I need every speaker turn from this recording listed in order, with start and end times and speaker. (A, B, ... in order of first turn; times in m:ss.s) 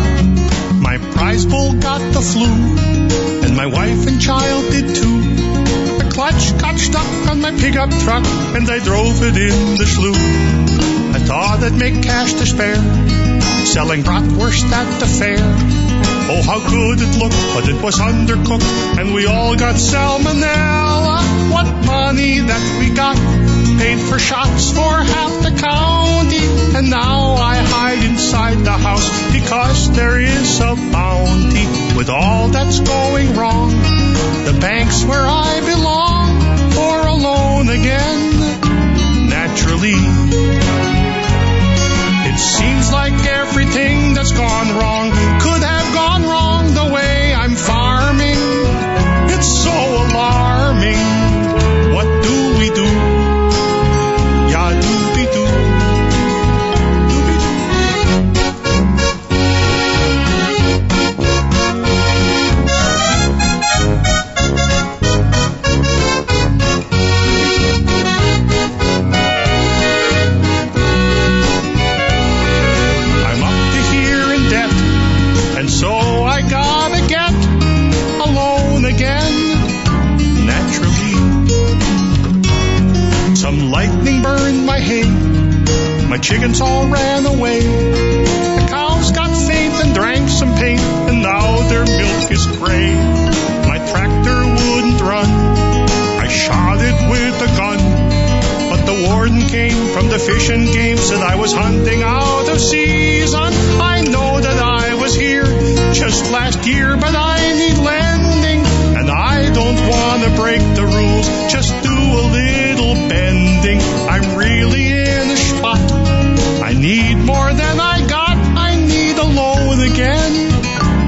0:00.8-0:40.6 A
0:42.2-0:53.5 A
0:54.4-0:56.2 A
0:57.0-0:57.6 A
1:13.2-1:21.6 A
1:23.3-2:00.7 A